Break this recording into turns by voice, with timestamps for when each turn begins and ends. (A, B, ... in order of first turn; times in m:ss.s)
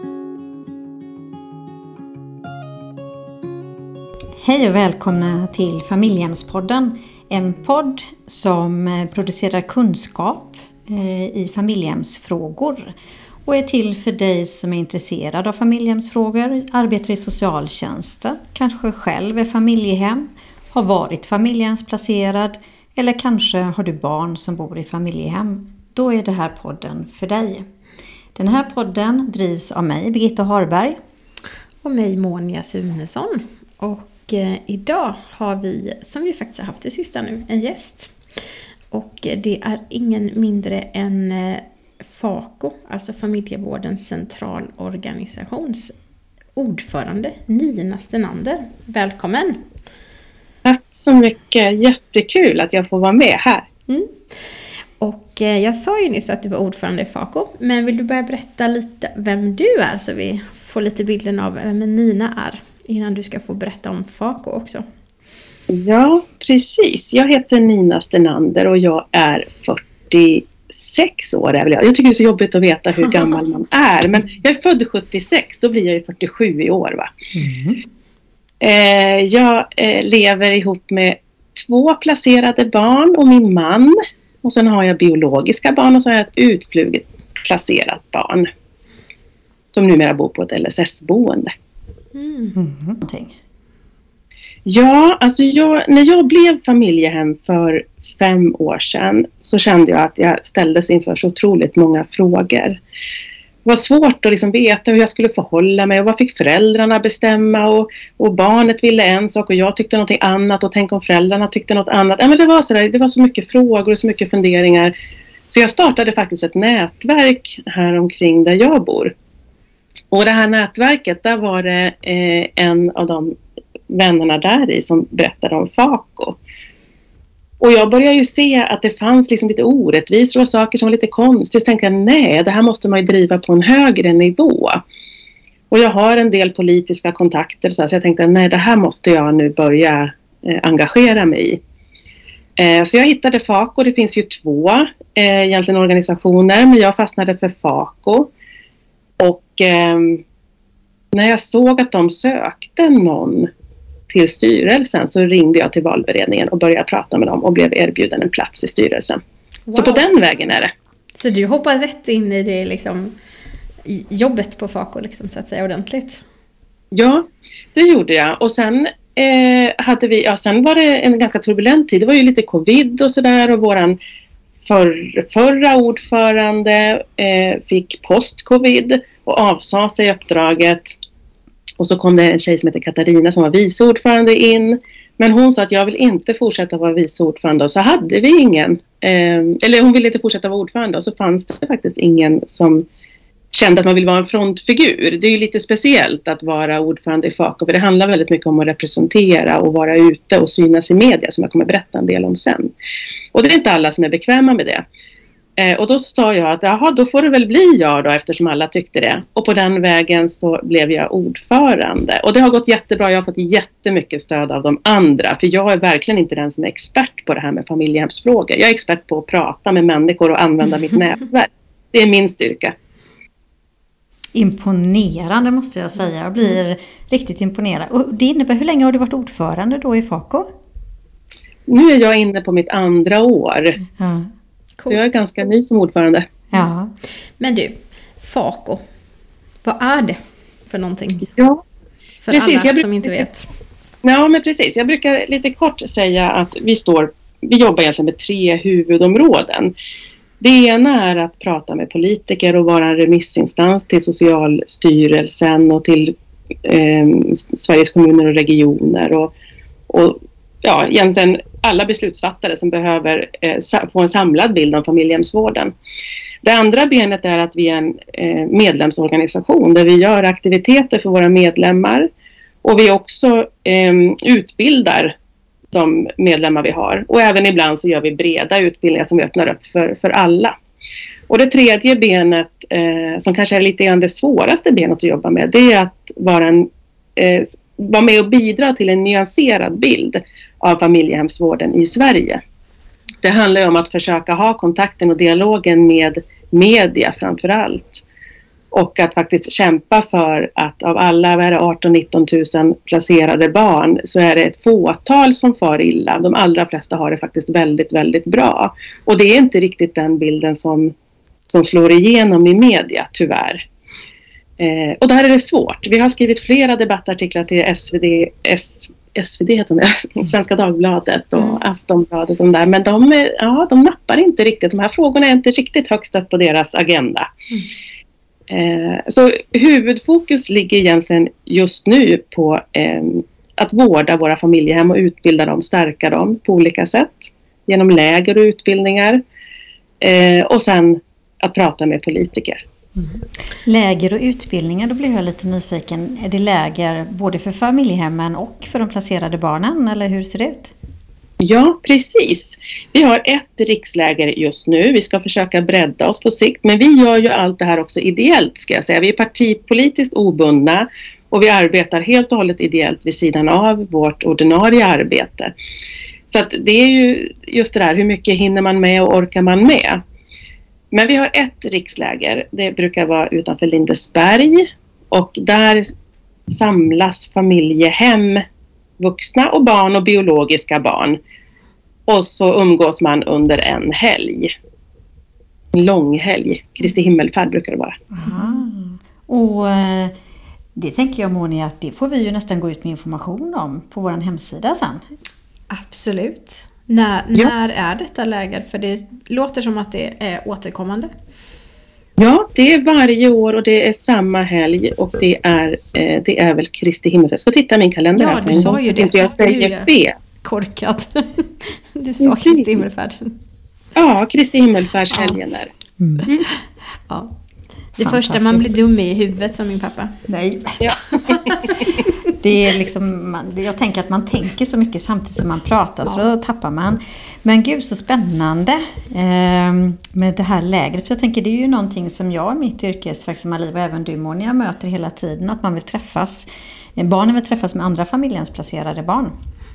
0:04.4-0:12.9 A
0:13.4-0:27.6 A
0:28.3-0:31.0 A
0:31.8-0:38.1 B
0:38.9-0:46.0 B
0:46.5-0:49.6 B
0:50.6-0:53.7 C
0:53.9-0:54.2 B
0:55.0-1:04.8 B
1:05.7-1:17.1 C
1:17.3-1:17.8 A
1:18.6-1:28.5 C
1:29.7-1:31.5 C
1:32.1-1:32.5 B
1:32.5-1:33.4 A
1:34.6-1:42.8 C
1:43.6-1:54.9 C
1:55.5-1:59.1 C
2:00.1-2:03.3 C
2:03.9-2:06.4 C
2:07.6-2:14.8 C
2:15.7-2:21.6 C
2:22.6-2:28.3 C
2:29.2-2:30.2 C
2:31.1-2:33.5 C
2:34.1-2:39.2 C
2:39.7-2:40.1 B
2:39.7-2:40.7 C
2:41.1-2:43.1 B
2:43.8-2:46.2 B
2:46.9-2:54.0 C
2:54.6-3:01.0 C
3:01.8-3:12.8 C
3:13.5-3:22.7 C
3:23.3-3:24.8 C
3:25.6-3:42.7 C
3:44.3-3:50.5 A
3:51.7-3:53.8 C
3:54.0-3:54.3 A
3:54.8-3:55.0 B
3:54.9-3:56.2 C
3:56.5-3:56.9 A
3:57.4-3:58.8 B
3:59.6-4:01.3 B
4:01.3-4:01.6 C
4:02.2-4:03.5 B
4:02.3-4:03.2 C
4:04.0-4:09.7 C
4:10.4-4:19.3 C
4:19.9-4:25.7 C
4:26.4-4:32.1 C
4:32.6-4:35.1 C
4:35.7-4:40.5 C
4:41.3-4:52.4 C
4:53.2-4:58.0 C
4:58.7-5:10.9 C
5:11.5-5:13.6 C
5:14.6-5:27.3 C
5:28.5-5:39.2 C
5:40.0-5:42.6 C
5:43.0-5:50.7 A
5:51.4-6:05.5 C
6:06.3-6:10.0 C
6:10.9-6:15.9 C
6:16.5-6:18.4 C
6:19.0-6:21.2 C
6:22.1-6:24.5 C
6:25.7-6:28.0 C
6:28.1-6:30.1 A
6:28.2-6:28.6 B
6:30.7-6:35.0 A
6:35.7-6:41.1 B
6:42.2-6:50.1 C
6:48.1-6:49.9 B
6:50.4-6:53.4 B
6:52.2-6:52.8 C
6:54.0-6:55.7 C
6:55.1-6:55.4 B
6:56.0-6:56.3 A
6:56.3-6:56.6 B
6:57.1-6:57.3 B
6:58.0-7:00.2 B
6:58.0-6:58.6 A
7:00.3-7:00.9 A
7:00.8-7:01.5 C
7:01.2-7:02.1 B
7:02.3-7:19.3 A